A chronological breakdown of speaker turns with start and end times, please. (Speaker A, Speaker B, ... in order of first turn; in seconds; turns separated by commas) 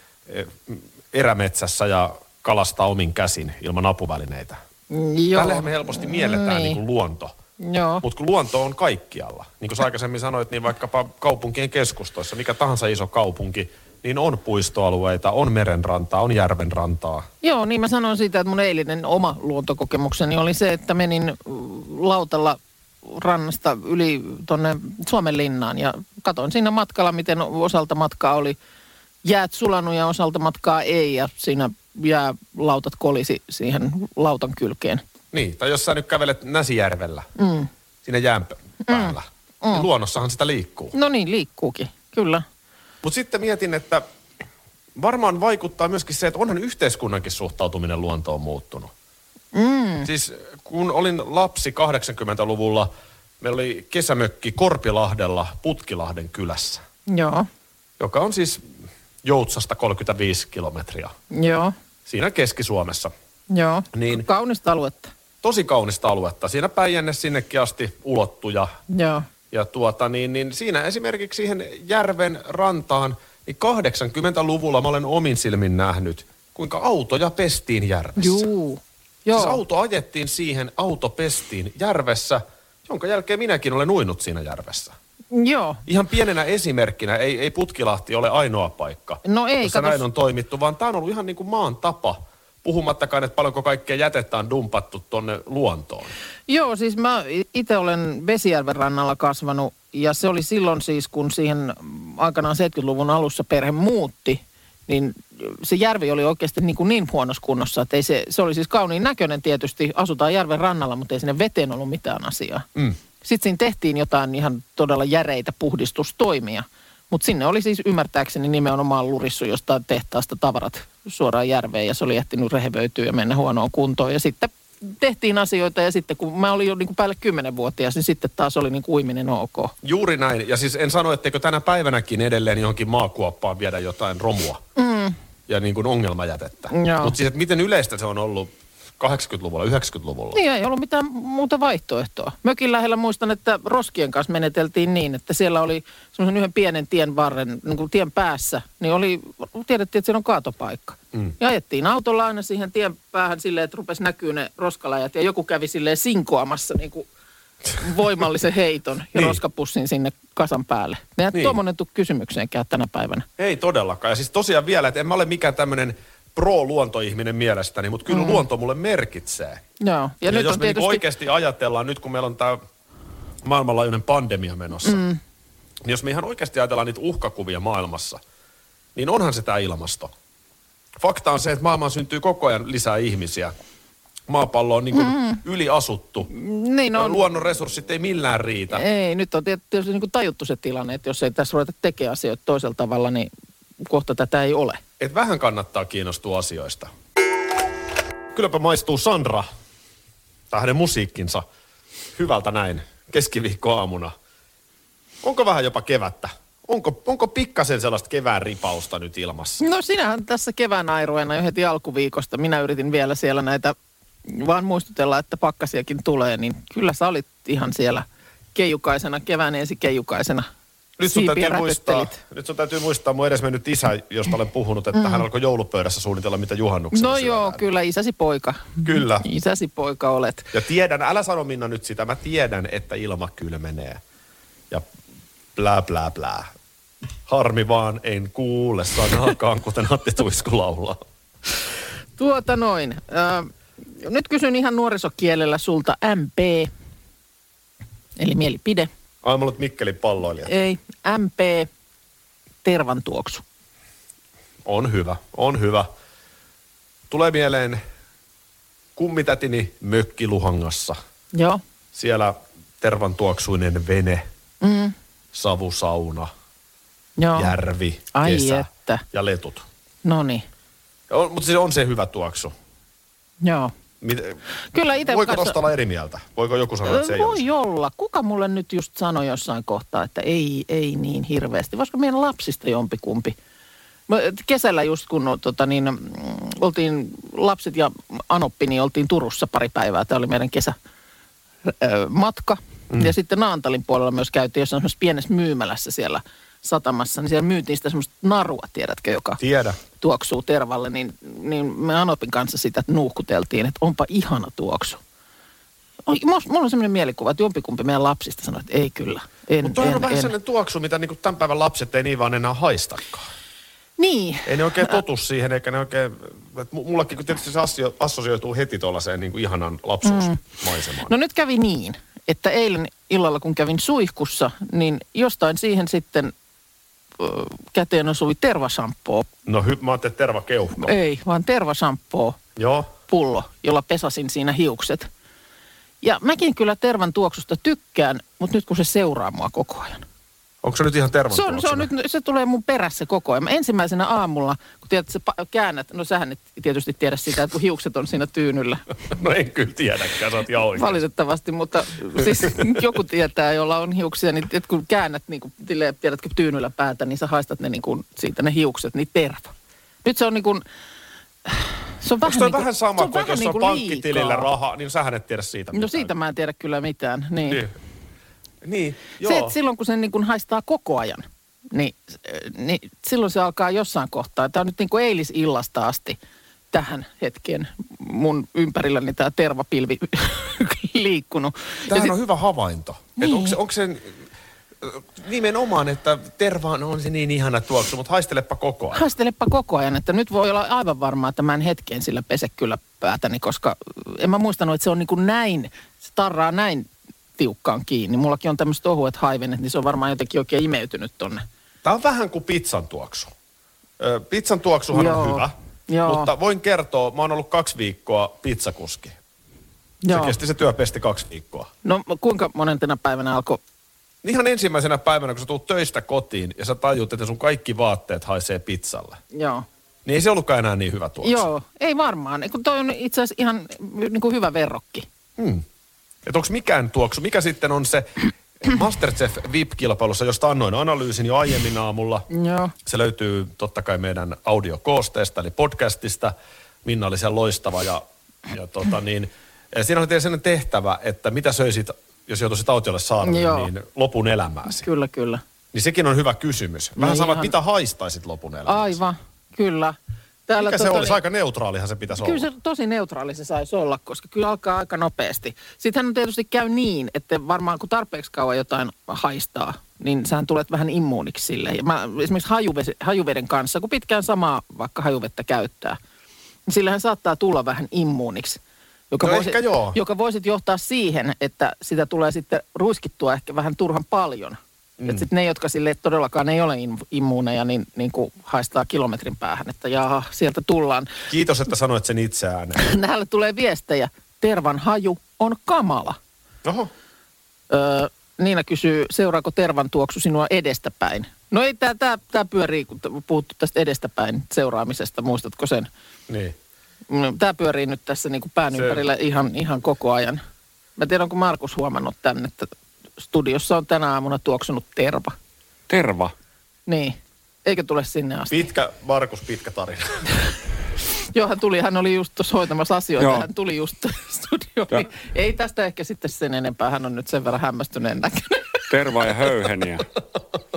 Speaker A: 0.3-4.6, Speaker B: 4.9-6.8, Speaker A: 5.3-7.3, Speaker B: 7.6-8.0, Speaker A: 8.0-17.3, Speaker B: 17.4-28.6, Speaker B: 29.2-35.0, Speaker A: 35.3-37.3, Speaker B: 37.4-37.7, Speaker A: 38.0-40.9, Speaker B: 38.9-39.9, Speaker B: 40.9-42.4, Speaker A: 43.0-44.0, Speaker A: 45.0-48.9, Speaker B: 49.5-50.1, Speaker A: 50.0-52.9, Speaker A: 53.4-56.8, Speaker B: 57.1-57.5, Speaker A: 58.0-58.6, Speaker A: 59.2-61.1, Speaker B: 61.3-61.7, Speaker A: 62.0-63.1, Speaker B: 63.5-65.1, Speaker A: 63.9-64.2, Speaker A: 65.4-68.8, Speaker B: 68.9-69.3, Speaker A: 69.5-78.5, Speaker B: 78.2-79.6, Speaker A: 79.3-84.9, Speaker B: 85.3-85.8, Speaker A: 85.9-96.1, Speaker B: 89.2-90.0, Speaker B: 96.5-112.7, Speaker B: 113.2-129.7, Speaker A: 129.8-134.6, Speaker B: 134.8-135.2, Speaker A: 135.5-140.4, Speaker B: 136.7-137.2, Speaker B: 140.3-157.1, Speaker B: 157.7-163.2, Speaker A: 159.1-159.4, Speaker A: 163.4-169.6, Speaker B: 168.1-168.4, Speaker B: 169.8-171.0, Speaker A: 170.2-172.6, Speaker A: 173.4-175.0, Speaker B: 174.8-175.2, Speaker A: 175.8-178.2, Speaker A: 178.9-180.1, Speaker A: 181.0-183.5, Speaker A: 184.3-186.3, Speaker B: 184.9-185.4, Speaker B: 186.3-187.2, Speaker A: 186.9-188.8, Speaker B: 188.7-193.3, Speaker B: 193.8-194.8, Speaker A: 195.0-196.9, Speaker A: 198.3-199.5, Speaker A: 200.5-201.4, Speaker A: 202.1-204.1, Speaker A: 205.2-209.6, Speaker B: 209.6-213.7, Speaker B: 214.2-220.5, Speaker A: 221.0-227.6, Speaker B: 221.1-222.2, Speaker B: 224.9-225.2, Speaker B: 226.9-230.5, Speaker A: 228.8-229.3, Speaker A: 230.5-234.0, Speaker A: 235.6-236.5, Speaker A: 237.3-241.0, Speaker B: 242.2-246.7, Speaker B: 248.2-248.9, Speaker A: 249.2-250.5, Speaker B: 250.4-251.7, Speaker B: 252.6-253.4, Speaker A: 254.6-255.9, Speaker A: 257.1-257.8, Speaker A: 258.9-261.0, Speaker B: 261.3-261.6, Speaker A: 261.9-264.3, Speaker B: 264.6-264.9, Speaker A: 265.3-266.3, Speaker B: 267.2-267.5, Speaker A: 267.3-269.6, Speaker B: 268.1-269.0, Speaker B: 270.0-270.4, Speaker A: 271.1-272.5, Speaker B: 273.4-273.7, Speaker A: 274.0-274.4, Speaker B: 274.7-275.5, Speaker A: 275.0-277.4, Speaker B: 276.9-283.3, Speaker B: 284.1-290.7, Speaker B: 291.6-299.4, Speaker A: 299.4-299.8, Speaker B: 300.0-305.0, Speaker B: 306.1-310.3, Speaker A: 309.6-313.3, Speaker B: 314.0-315.0, Speaker A: 314.4-321.1, Speaker B: 320.0-320.4, Speaker B: 321.0-326.3, Speaker B: 327.2-329.3, Speaker A: 329.4-330.9, Speaker B: 330.8-332.4, Speaker A: 332.6-332.9, Speaker B: 333.1-335.1, Speaker B: 336.0-340.0, Speaker A: 340.6-341.9, Speaker B: 341.3-348.8, Speaker A: 349.1-351.0, Speaker B: 350.7-359.5, Speaker A: 352.2-352.8, Speaker B: 360.0-360.6, Speaker B: 361.4-364.5, Speaker A: 362.2-366.1, Speaker B: 365.7-367.6, Speaker A: 367.5-367.7, Speaker A: 368.6-369.5, Speaker B: 369.2-376.2, Speaker B: 376.7-382.1, Speaker A: 381.9-384.2, Speaker B: 383.2-383.6, Speaker A: 384.8-389.1, Speaker B: 388.9-401.4, Speaker A: 401.8-403.3, Speaker A: 404.0-405.5, Speaker B: 404.9-406.3, Speaker A: 406.1-409.2, Speaker B: 410.0-410.4, Speaker A: 410.1-411.7, Speaker B: 411.8-413.6, Speaker A: 414.2-419.2, Speaker B: 419.3-419.6, Speaker A: 420.0-421.5, Speaker B: 421.2-425.1, Speaker A: 425.4-425.6, Speaker A: 426.2-428.1, Speaker A: 428.6-432.3, Speaker B: 432.3-432.7, Speaker A: 432.8-444.9, Speaker B: 443.2-443.7, Speaker B: 444.7-445.4, Speaker A: 445.7-449.0, Speaker B: 447.0-447.5, Speaker B: 448.6-451.2, Speaker A: 450.6-452.4, Speaker B: 452.2-466.0, Speaker B: 466.7-481.1, Speaker A: 469.2-470.0, Speaker A: 475.0-475.3, Speaker A: 481.3-482.9, Speaker B: 482.8-486.2, Speaker A: 486.6-486.9, Speaker B: 487.7-495.9, Speaker A: 496.3-496.5, Speaker B: 497.1-500.4, Speaker A: 498.7-499.0, Speaker B: 501.0-505.4, Speaker C: 505.9-506.3, Speaker B: 506.9-508.6, Speaker A: 508.5-510.3, Speaker B: 511.3-518.8, Speaker C: 513.2-513.5, Speaker C: 518.9-520.0